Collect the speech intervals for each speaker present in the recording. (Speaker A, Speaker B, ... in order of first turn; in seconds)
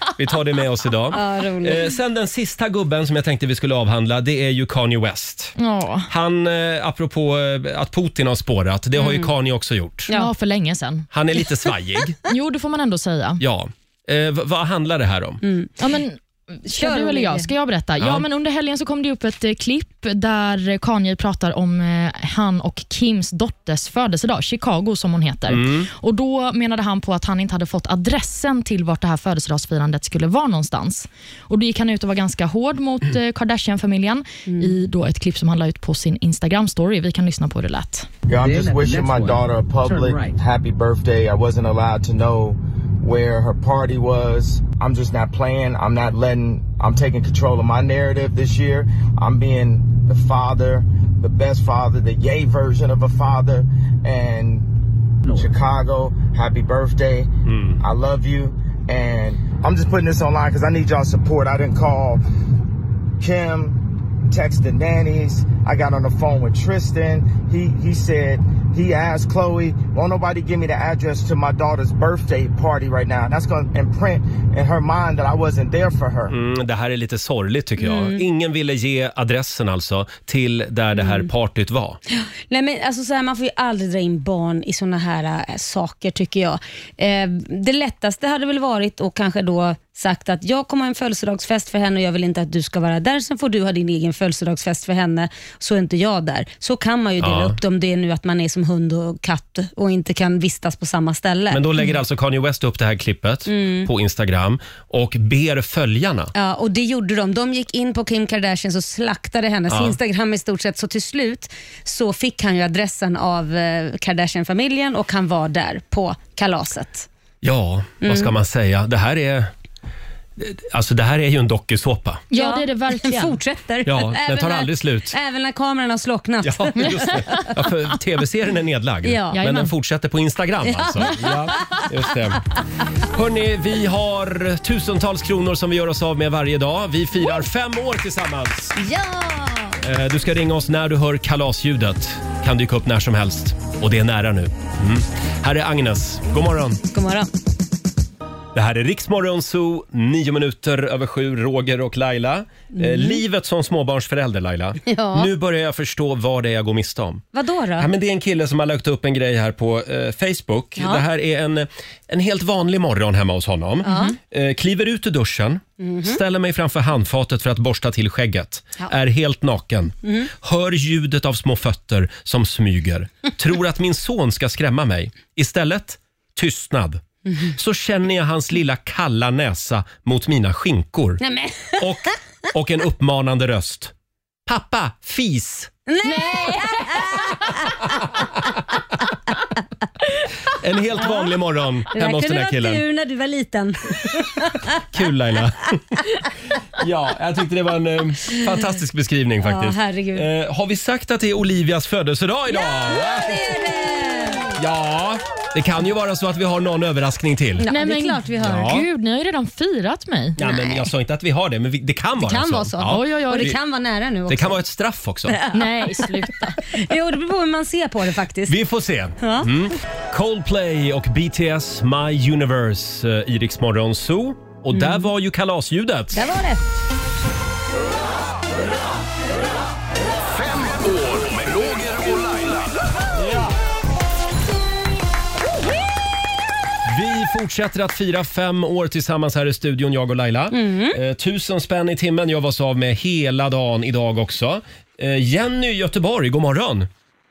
Speaker A: 0.2-5.5, 6.1-10.1, 11.1-12.2, 13.4-15.4, 18.0-18.2, 25.5-25.9, 57.5-57.8, 76.3-82.0, 97.2-97.6, 101.5-106.3, 109.7-110.0, 117.4-119.5, 120.4-122.2, 123.9-125.2, 126.4-132.4, 133.1-138.8, 139.8-146.8, 148.5-157.2, 157.8-181.2, 181.8-183.9, 184.5-185.7, 190.6-192.8, 194.8-195.8, 196.8-203.6, 204.5-207.7, 208.4-208.8, 210.4-213.6, 214.3-215.4, 218.5-226.3, 236.9-246.9
Speaker B: 1.1-1.9, 9.0-9.3, 15.4-15.7, 16.7-17.5, 77.8-78.2, 81.0-81.3, 82.1-101.8, 103.5-103.9, 106.3-117.1, 118.0-118.3, 122.3-127.5, 129.0-129.4, 130.7-131.8, 138.8-139.8, 146.9-147.3, 152.7-153.2, 154.9-155.3, 157.3-157.9, 160.8-161.0, 163.8-164.2, 165.8-166.2, 181.2-182.1, 185.9-187.9, 191.0-191.3, 191.9-194.8, 199.4-200.3, 202.5-204.5, 207.6-208.7, 210.4-210.9, 212.2-214.6, 215.3-218.6, 219.2-219.5, 224.7-225.1, 226.1-226.6, 240.5-241.0
Speaker C: 5.6-6.1, 10.1-11.1, 12.3-13.4, 15.8-38.1, 122.3-123.4, 129.3-129.7, 186.2-186.5, 207.7-210.4, 212.9-213.5, 215.5-216.6
Speaker D: 38.3-62.2, 63.2-76.3
Speaker E: 230.3-232.8